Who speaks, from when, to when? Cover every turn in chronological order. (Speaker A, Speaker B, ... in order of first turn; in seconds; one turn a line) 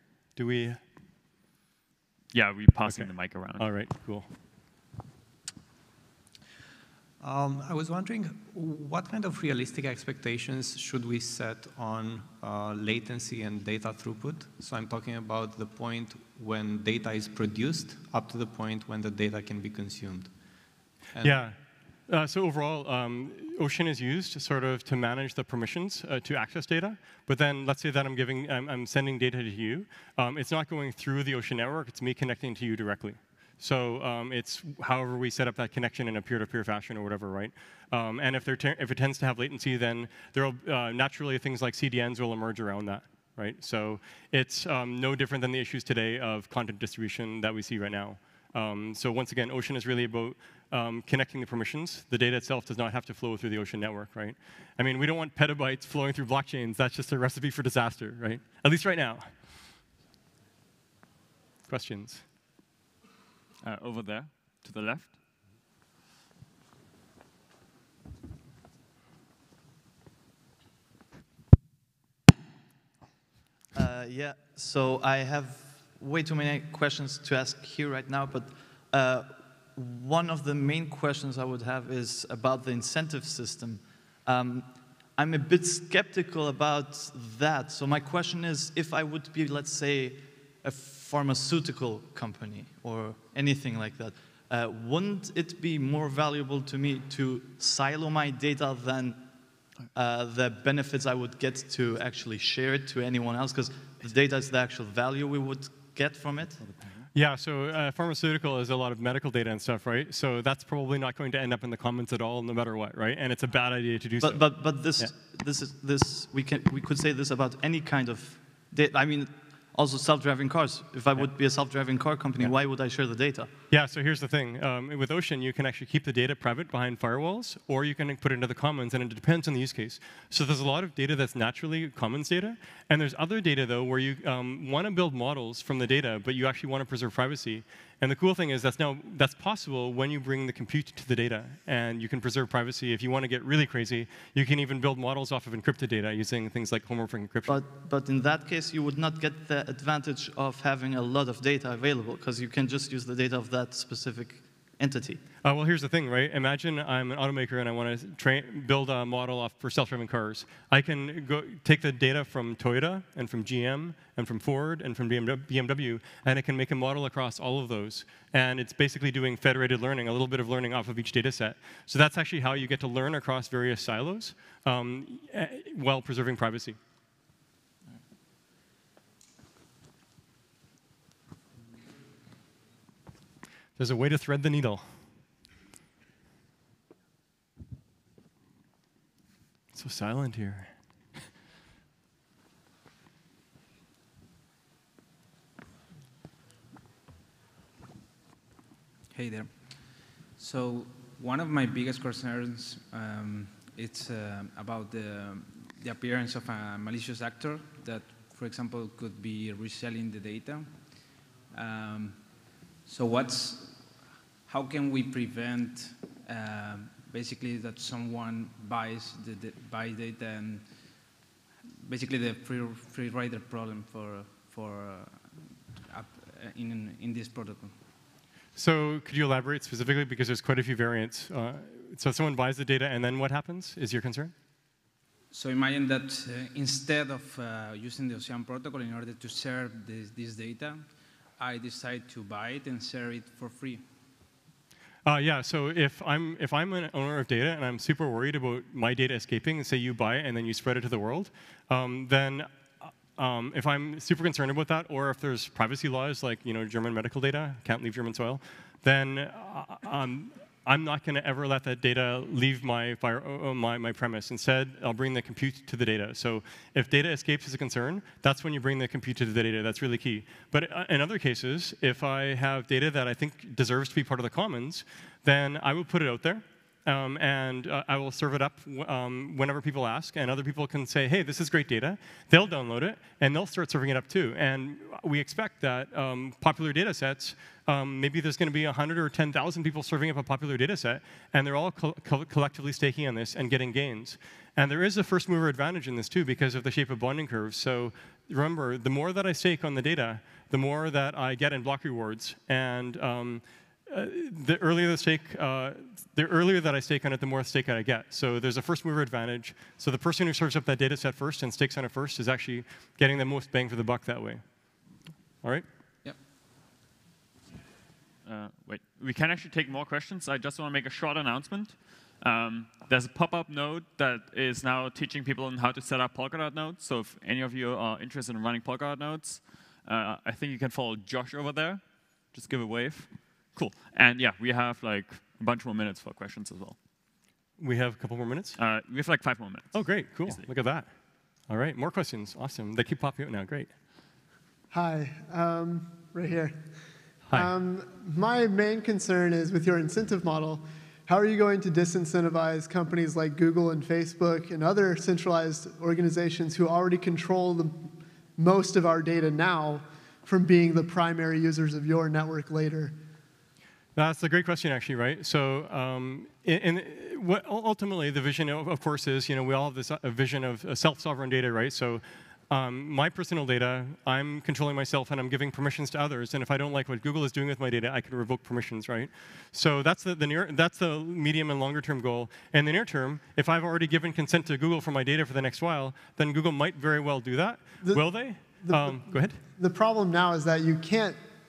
Speaker A: 0.4-0.8
Speaker B: 2.3-3.6
Speaker A: 2.9-4.3
Speaker C: 7.2-20.3
Speaker C: 21.1-21.4
Speaker A: 21.2-21.6
Speaker A: 22.1-59.3
Speaker A: 61.7-62.2
Speaker B: 63.6-65.1
Speaker D: 73.7-99.3
Speaker D: 99.9-106.6
Speaker A: 107.1-115.1
Speaker D: 114.2-123.5
Speaker A: 123.7-147.6
Speaker D: 147.5-155.2
Speaker A: 155.4-176.8
Speaker A: 183.8-184.9
Speaker A: 189.7-190.7
Speaker E: 199.1-212.2
Speaker E: 212.8-213.9
Speaker E: 214.5-220.6
Speaker E: 221.8-227.7
Speaker A: 228.6-234.3
Speaker E: 235.3-240.8
Speaker E: 241.4-243.8
Speaker A: 245.1-314.4
Speaker B: 318.2-331.8
Speaker B: 332.3-336.8
Speaker A: 337.6-338.6
Speaker B: 338.6-340.5
Speaker A: 339.7-340.9
Speaker A: 341.5-343.7
Speaker F: 344.7-346.6
Speaker F: 347.3-362.9
Speaker A: 364.0-389.4
Speaker F: 388.6-391.2